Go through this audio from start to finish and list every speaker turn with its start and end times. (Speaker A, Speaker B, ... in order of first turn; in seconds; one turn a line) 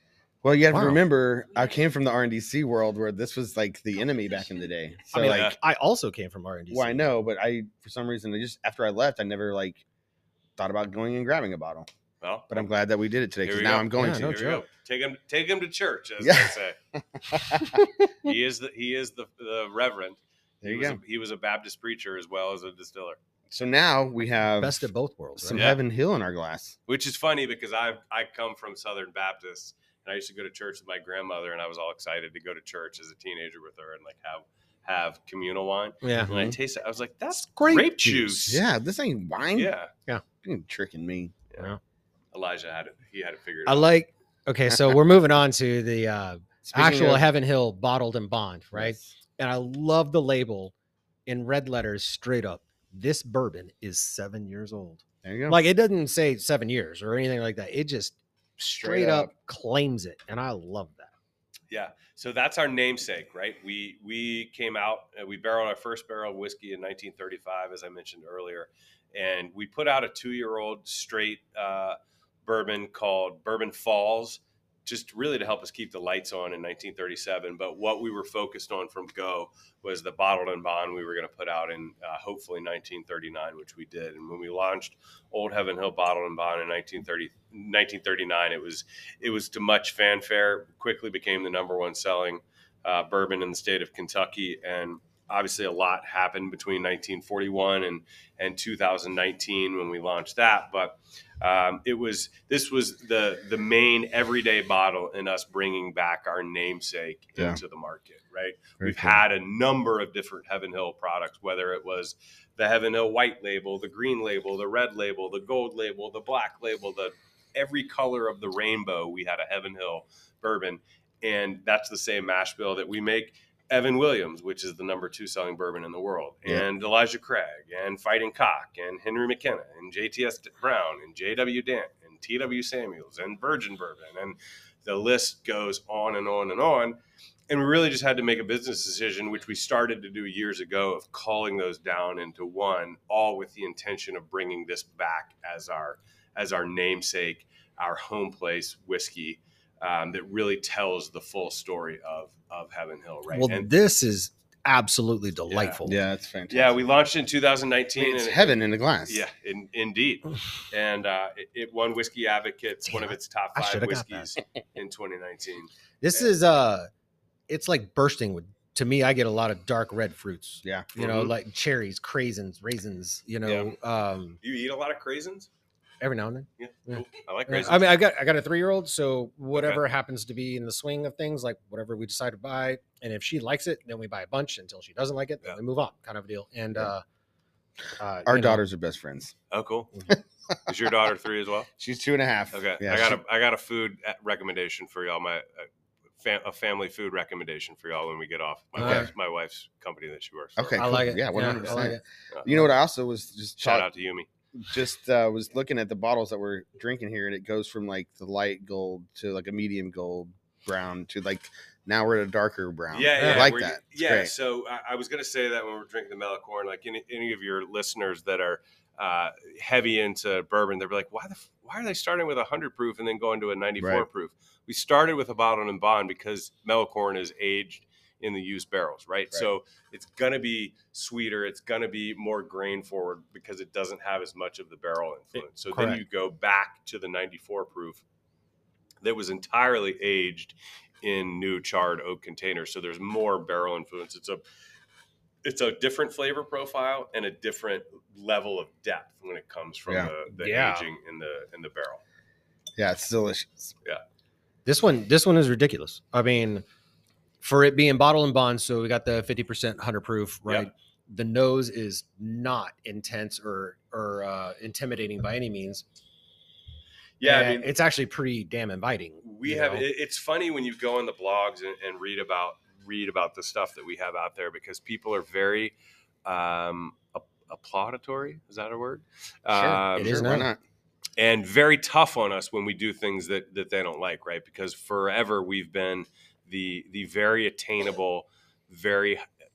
Speaker A: 0.4-5.6
Speaker B: 0.7-1.0
Speaker B: 5.1-7.1
Speaker C: 5.2-5.6
Speaker A: 6.7-9.8
Speaker A: 10.6-11.9
Speaker C: 12.2-12.7
Speaker A: 12.5-14.5
Speaker C: 13.4-16.8
Speaker B: 14.0-14.6
Speaker A: 16.2-16.5
Speaker A: 17.2-18.3
Speaker C: 18.2-23.2
Speaker A: 20.6-21.0
Speaker A: 23.5-24.9
Speaker B: 24.6-25.6
Speaker A: 25.4-26.8
Speaker C: 25.5-25.8
Speaker C: 26.9-38.6
Speaker B: 36.0-36.3
Speaker A: 36.2-36.6
Speaker B: 37.4-38.6
Speaker A: 38.5-39.7
Speaker C: 39.5-39.9
Speaker A: 40.4-41.4
Speaker C: 42.3-44.0
Speaker B: 43.7-50.7
Speaker A: 46.6-47.3
Speaker A: 48.7-49.1
Speaker B: 51.3-61.1
Speaker A: 55.2-55.6
Speaker A: 58.8-59.3
Speaker C: 61.7-137.0
Speaker A: 108.8-109.2
Speaker C: 137.5-153.7
Speaker B: 153.3-156.0
Speaker C: 155.5-155.8
Speaker A: 155.8-156.8
Speaker C: 156.5-165.7
Speaker A: 158.0-159.2
Speaker B: 162.9-164.3
Speaker B: 166.0-166.9
Speaker B: 167.5-174.4
Speaker A: 170.6-170.9
Speaker C: 171.0-171.3
Speaker C: 173.4-173.7
Speaker C: 174.4-175.5
Speaker B: 176.0-187.0
Speaker C: 176.6-178.0
Speaker C: 179.5-179.8
Speaker B: 188.0-188.6
Speaker A: 188.3-189.3
Speaker C: 189.5-189.9
Speaker C: 190.7-191.7
Speaker A: 191.8-193.2
Speaker C: 192.5-195.7
Speaker C: 196.2-200.8
Speaker B: 198.8-199.1
Speaker A: 198.8-199.1
Speaker A: 200.6-203.9
Speaker B: 200.8-202.0
Speaker C: 203.6-204.3
Speaker A: 204.6-214.3
Speaker C: 212.9-238.0
Speaker B: 213.2-213.5
Speaker A: 223.8-224.1
Speaker B: 235.7-236.0
Speaker C: 239.0-244.4
Speaker C: 245.4-252.0
Speaker A: 249.9-250.1
Speaker B: 250.4-250.9
Speaker A: 252.8-253.7
Speaker B: 254.7-256.6
Speaker B: 257.4-265.8
Speaker C: 267.2-267.7
Speaker B: 267.2-269.8
Speaker C: 269.2-280.3
Speaker A: 279.5-280.6
Speaker B: 280.0-280.5
Speaker C: 281.2-289.2